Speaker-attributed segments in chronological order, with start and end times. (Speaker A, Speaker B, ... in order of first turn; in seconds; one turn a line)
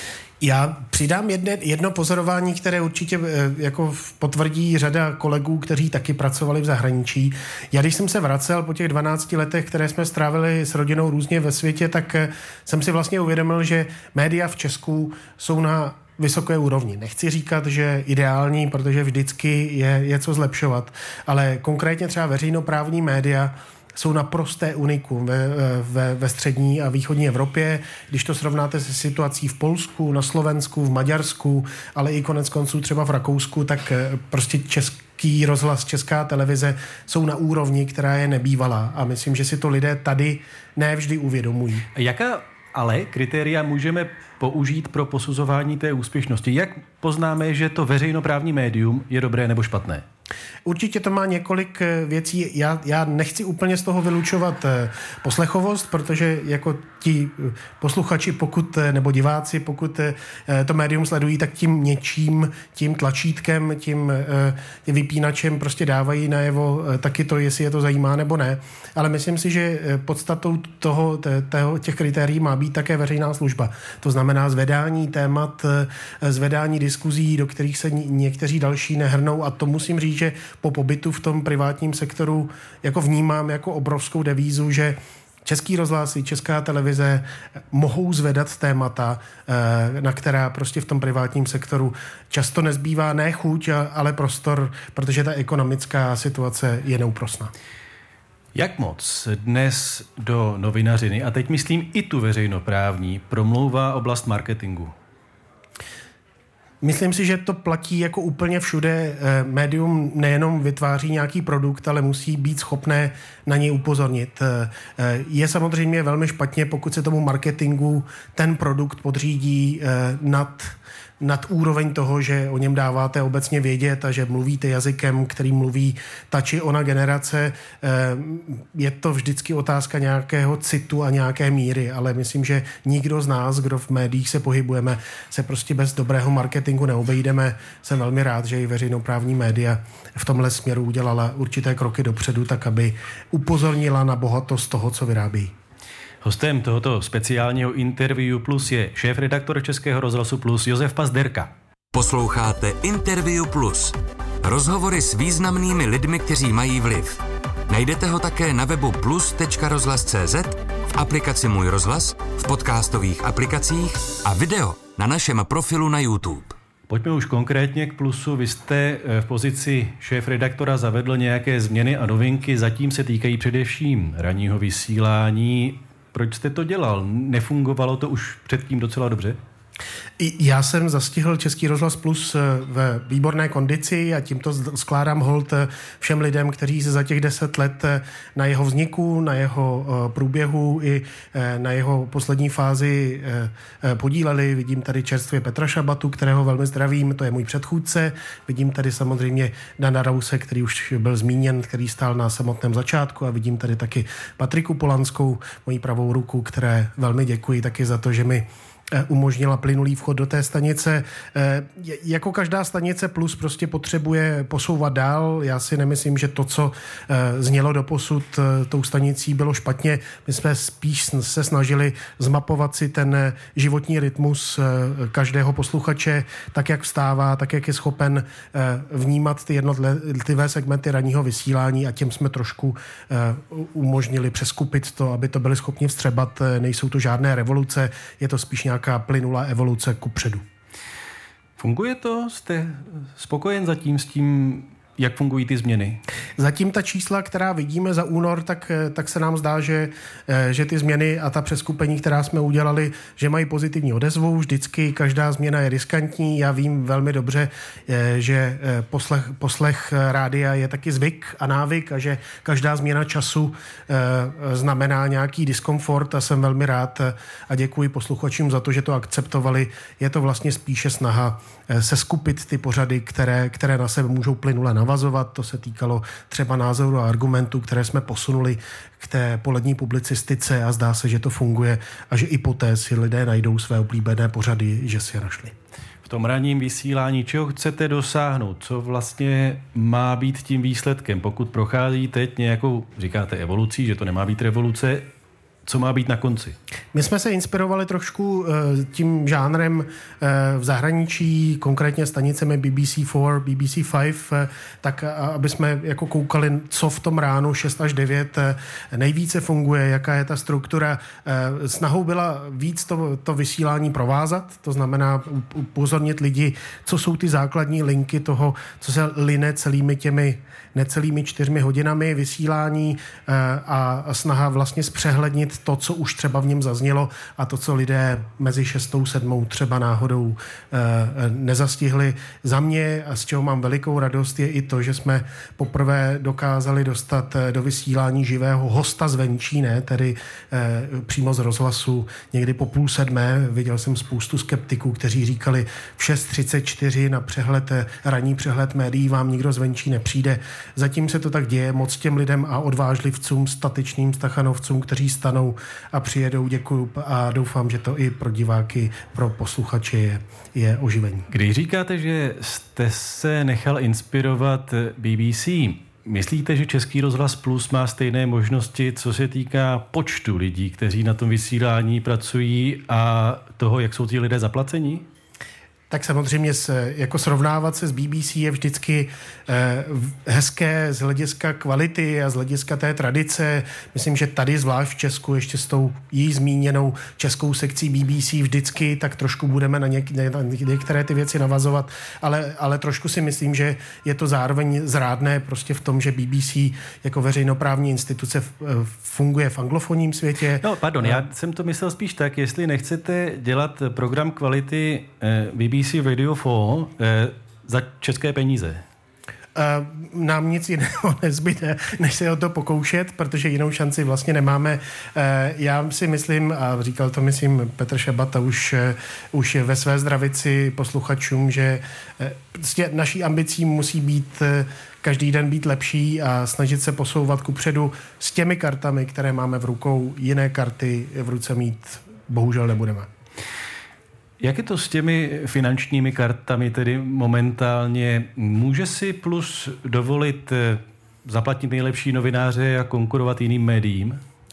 Speaker A: 0.4-41.9
Speaker B: 41.9-50.0
Speaker A: 50.6-97.5
Speaker B: 98.5-104.9
Speaker A: 106.8-145.5
Speaker B: 146.2-151.5
Speaker C: 151.9-166.5
Speaker B: 166.9-179.4
Speaker A: 180.2-240.4
Speaker B: 241.6-246.0
Speaker A: 246.4-285.5
Speaker B: 286.0-295.1
Speaker B: 295.6-296.6
Speaker A: 296.9-361.3
Speaker B: 361.3-375.1
Speaker A: 375.9-401.2
Speaker B: 400.6-408.8
Speaker A: 409.5-433.1
Speaker B: 434.4-444.2